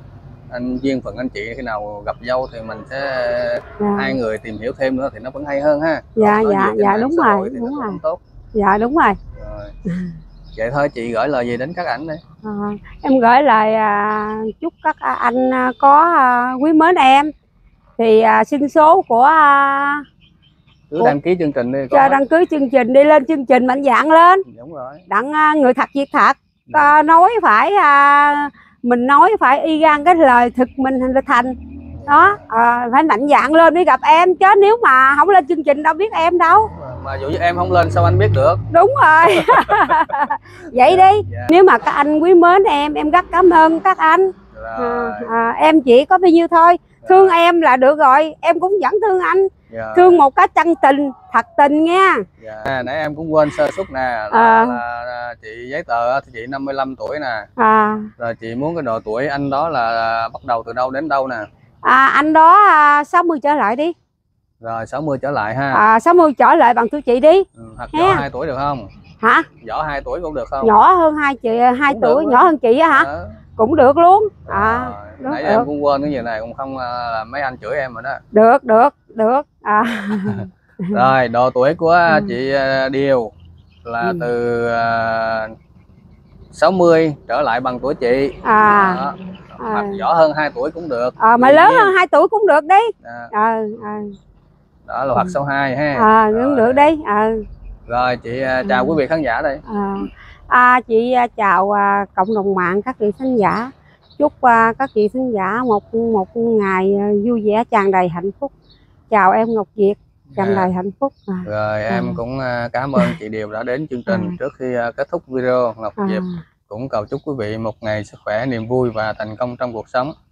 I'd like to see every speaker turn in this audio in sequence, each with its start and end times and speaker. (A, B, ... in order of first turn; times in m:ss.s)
0:00.5-0:08.2 A
0:03.8-0:04.2 B
0:06.2-0:08.0 B
0:08.5-0:09.2 B
0:09.4-0:09.7 A
0:10.5-0:12.2 A
0:12.4-0:17.3 B
0:18.0-0:20.0 B
0:20.9-0:22.2 A
0:21.9-0:24.4 B
0:24.4-0:25.0 A
0:25.1-0:31.6 B
0:31.9-0:32.4 A
0:32.1-0:36.7 B
0:36.7-0:38.6 A
0:38.7-0:52.2 B
0:39.2-0:41.6 A
0:44.5-0:45.3 A
0:47.0-0:47.3 A
0:49.7-0:50.2 A
0:52.4-0:57.5 A
0:54.3-0:54.8 B
0:57.6-0:58.1 B
0:58.2-1:01.5 A
1:01.8-1:03.9 B
1:04.6-1:05.8 A
1:05.7-1:08.2 B
1:07.6-1:08.9 A
1:09.2-1:09.5 B
1:09.6-1:10.7 A
1:10.6-1:15.7 B
1:11.9-1:13.4 A
1:14.5-1:18.2 A
1:18.3-1:21.0 B
1:19.9-1:23.3 A
1:23.8-1:25.5 A
1:26.5-1:31.9 A
1:28.4-1:29.0 B
1:29.6-1:30.0 B
1:31.2-1:34.1 B
1:33.0-1:33.3 A
1:34.8-1:36.9 A
1:35.9-1:37.4 B
1:37.9-1:39.6 A
1:38.6-1:39.0 B
1:39.7-1:48.5 B
1:49.1-1:52.2 B
1:50.3-1:50.7 A
1:51.4-2:00.1 A
1:54.1-1:54.4 B
1:56.0-1:56.4 B